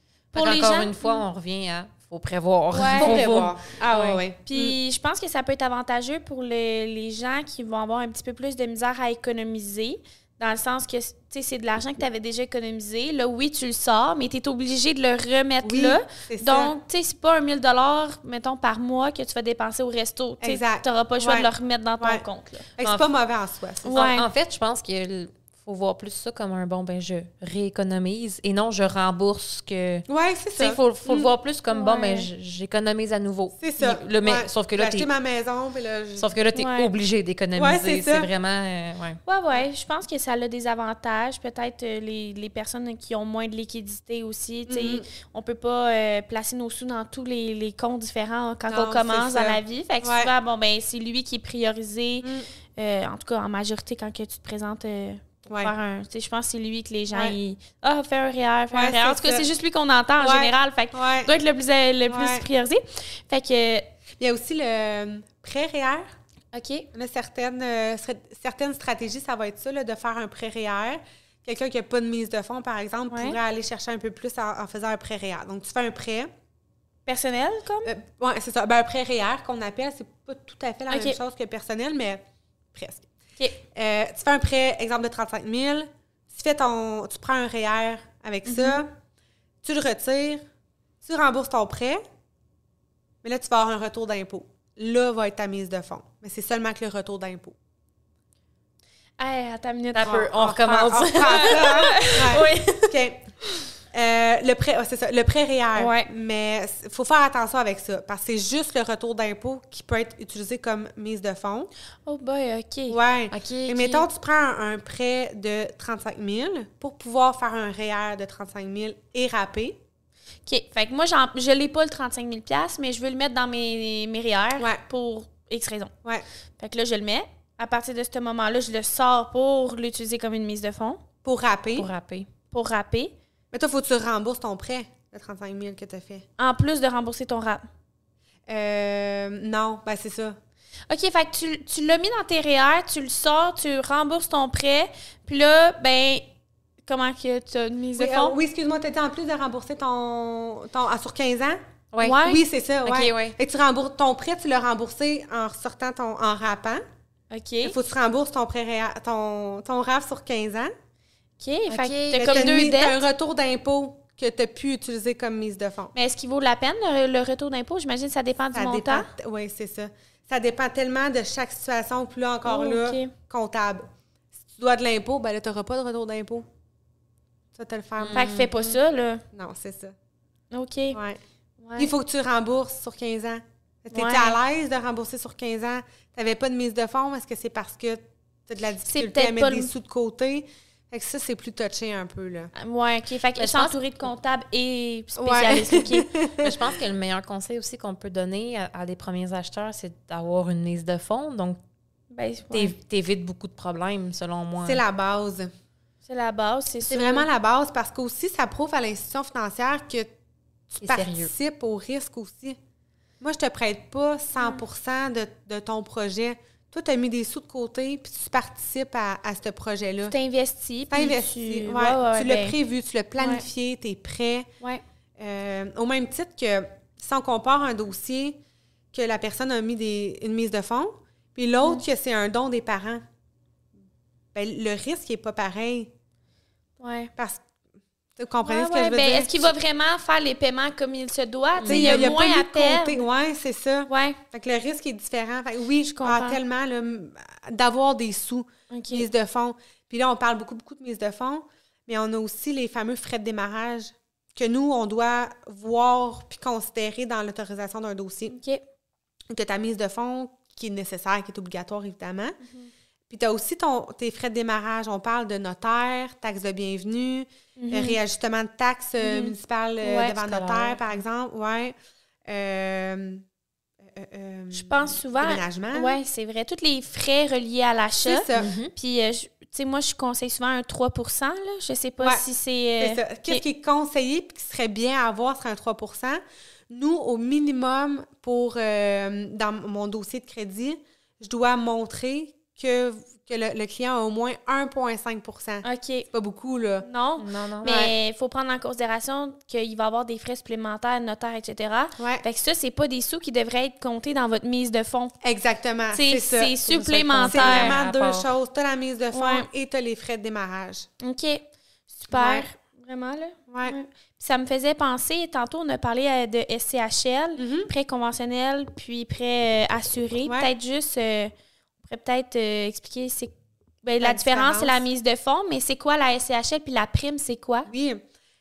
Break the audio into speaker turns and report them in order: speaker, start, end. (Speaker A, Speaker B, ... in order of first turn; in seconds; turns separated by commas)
Speaker A: 0.3-1.2, Speaker B: 0.3-4.2, Speaker A: 2.7-3.4, Speaker C: 2.8-4.8, Speaker A: 4.5-22.7, Speaker C: 15.6-16.7, Speaker C: 20.4-22.2, Speaker C: 22.8-24.1, Speaker A: 23.9-24.2, Speaker B: 23.9-35.1, Speaker C: 30.1-31.3, Speaker A: 31.7-32.3, Speaker C: 33.6-36.3, Speaker B: 36.2-39.2, Speaker A: 36.5-36.9, Speaker C: 37.5-38.3, Speaker A: 39.2-63.9, Speaker C: 44.7-45.0, Speaker C: 48.7-50.3, Speaker C: 52.2-52.5, Speaker C: 55.5-55.7, Speaker C: 58.7-59.5, Speaker C: 60.2-61.4, Speaker C: 62.1-62.5, Speaker C: 64.2-66.1, Speaker A: 66.5-66.9, Speaker C: 66.9-76.3, Speaker A: 73.1-73.4, Speaker A: 77.0-77.9, Speaker C: 77.8-82.2, Speaker A: 80.9-81.2, Speaker C: 82.7-83.1, Speaker C: 83.6-88.9, Speaker A: 88.4-88.8, Speaker C: 89.6-90.4, Speaker C: 91.0-92.0, Speaker C: 93.2-97.5, Speaker A: 99.2-100.2, Speaker B: 99.9-102.9, Speaker C: 100.0-103.3, Speaker A: 101.2-102.6, Speaker C: 103.9-111.7, Speaker A: 105.7-106.1, Speaker A: 112.0-113.0, Speaker C: 112.9-119.8, Speaker B: 113.3-114.1, Speaker A: 120.5-125.9, Speaker A: 126.6-131.0, Speaker C: 131.2-131.9, Speaker B: 131.8-132.3, Speaker A: 132.5-133.1, Speaker C: 133.5-136.2, Speaker A: 136.4-137.7, Speaker C: 138.5-140.4, Speaker A: 140.9-146.2, Speaker A: 146.8-148.4, Speaker C: 148.0-151.6, Speaker B: 151.9-152.2, Speaker A: 152.0-152.4, Speaker C: 152.2-156.8, Speaker B: 152.8-153.3, Speaker A: 157.3-157.7, Speaker C: 157.6-160.7, Speaker A: 161.4-163.0, Speaker B: 161.7-162.5, Speaker C: 162.1-165.9, Speaker A: 165.9-169.1, Speaker C: 168.5-173.9, Speaker A: 172.4-173.1, Speaker C: 174.5-176.5, Speaker C: 177.5-178.8, Speaker B: 178.0-178.5, Speaker A: 178.1-179.2, Speaker C: 179.3-179.9, Speaker A: 180.5-181.0, Speaker C: 180.9-181.2, Speaker A: 181.6-181.9, Speaker C: 181.8-192.5, Speaker A: 183.9-184.4, Speaker A: 188.8-189.7, Speaker A: 192.6-196.1, Speaker B: 193.3-193.8, Speaker C: 195.2-196.8, Speaker B: 196.4-201.6, Speaker A: 202.1-202.7, Speaker B: 202.5-204.8, Speaker C: 204.6-205.5, Speaker A: 206.1-207.3, Speaker C: 206.9-210.1, Speaker C: 210.7-212.6, Speaker B: 210.8-211.3, Speaker C: 213.2-220.1, Speaker A: 220.1-222.6, Speaker C: 220.9-224.5, Speaker A: 223.2-223.4, Speaker C: 225.2-228.4, Speaker C: 228.9-233.0, Speaker C: 234.3-235.9, Speaker A: 236.8-237.1, Speaker C: 237.2-237.4, Speaker C: 238.2-239.5, Speaker A: 238.4-243.1, Speaker B: 241.6-242.1, Speaker C: 241.6-258.4, Speaker A: 243.9-244.2, Speaker A: 245.8-246.4, Speaker A: 248.7-249.1, Speaker A: 258.3-258.6, Speaker C: 259.3-262.4, Speaker A: 262.4-262.7, Speaker C: 263.1-271.7, Speaker A: 267.6-268.0, Speaker A: 269.0-270.6, Speaker C: 272.2-273.2, Speaker C: 273.8-275.9, Speaker A: 274.5-283.4, Speaker C: 278.0-278.5, Speaker B: 278.3-278.7, Speaker C: 282.0-282.2, Speaker C: 282.8-296.9, Speaker A: 295.6-296.1, Speaker A: 296.8-305.1, Speaker B: 297.2-297.8, Speaker C: 297.6-297.9, Speaker C: 302.0-302.2, Speaker C: 305.2-306.7, Speaker A: 305.9-307.8, Speaker B: 306.7-308.3, Speaker C: 307.3-310.9, Speaker A: 309.1-309.5, Speaker A: 311.0-321.3, Speaker C: 312.1-312.5, Speaker C: 313.5-313.8, Speaker C: 317.4-317.7, Speaker A: 321.8-327.7, Speaker C: 324.0-324.8, Speaker C: 327.7-328.0